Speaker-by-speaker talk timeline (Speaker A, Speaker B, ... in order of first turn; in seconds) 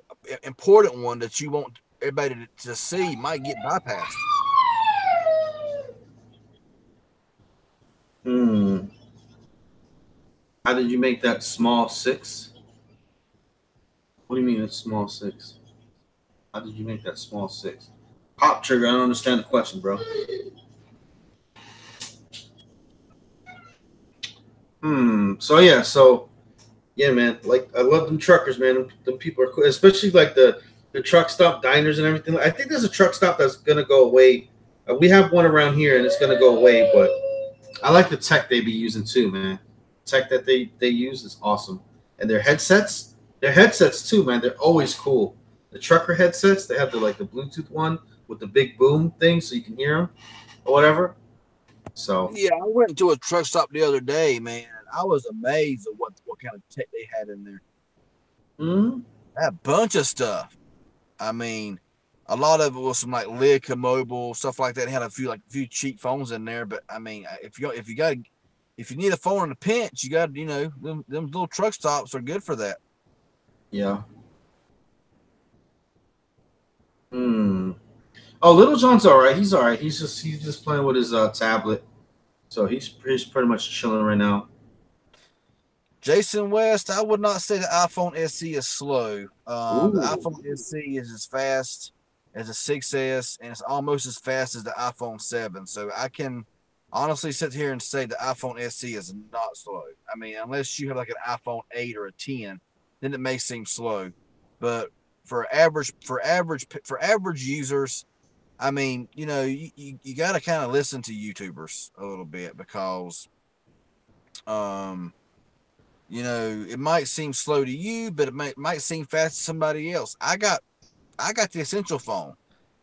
Speaker A: 0.2-4.2, 52.3-57.6, 59.4-60.5, 61.2-68.2, 68.8-72.8, 86.0-108.0, 108.6-113.3, 114.5-115.1, 116.1-120.6, 121.2-122.4
Speaker B: 8.2-8.9, 10.6-12.5, 14.3-15.5, 16.5-20.0, 24.8-26.3, 26.9-37.1, 37.8-50.1, 50.6-51.1, 51.9-52.3, 58.6-59.0, 73.7-74.0, 77.1-77.8, 78.4-81.8, 82.5-84.5, 89.7-90.3